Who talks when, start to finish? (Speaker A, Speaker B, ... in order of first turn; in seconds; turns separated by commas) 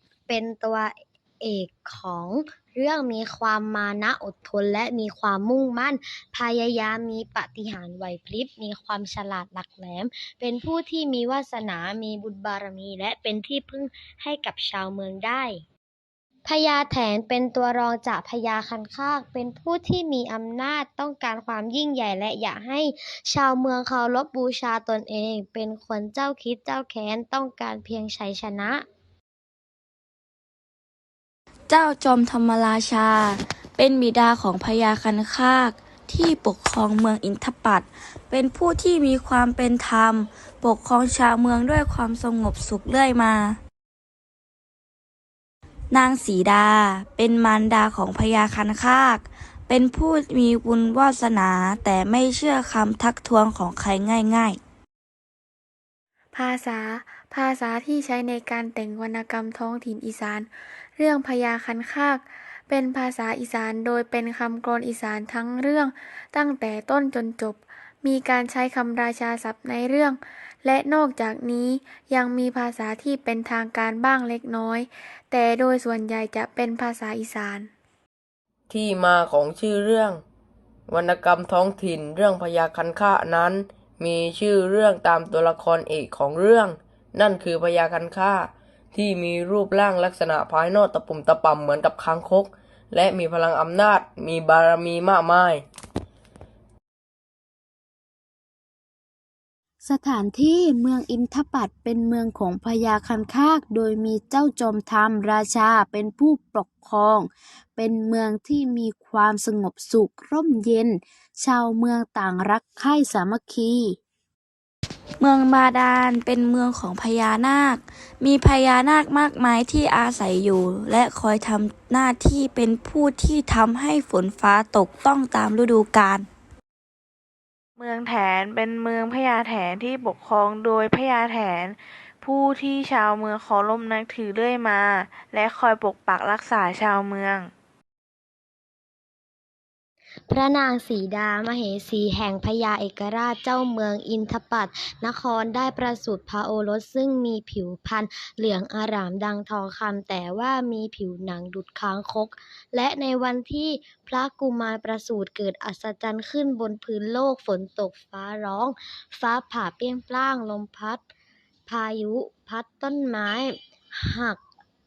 Speaker A: 0.3-15.6, Speaker A: 16.5-28.9, Speaker B: 31.7-43.6, Speaker B: 45.9-54.6, Speaker C: 56.3-77.7, Speaker D: 78.7-80.2, Speaker D: 80.9-95.6, Speaker E: 99.8-114.0, Speaker B: 115.2-126.3, Speaker F: 127.8-137.5, Speaker A: 140.3-161.1, Speaker A: 161.7-164.4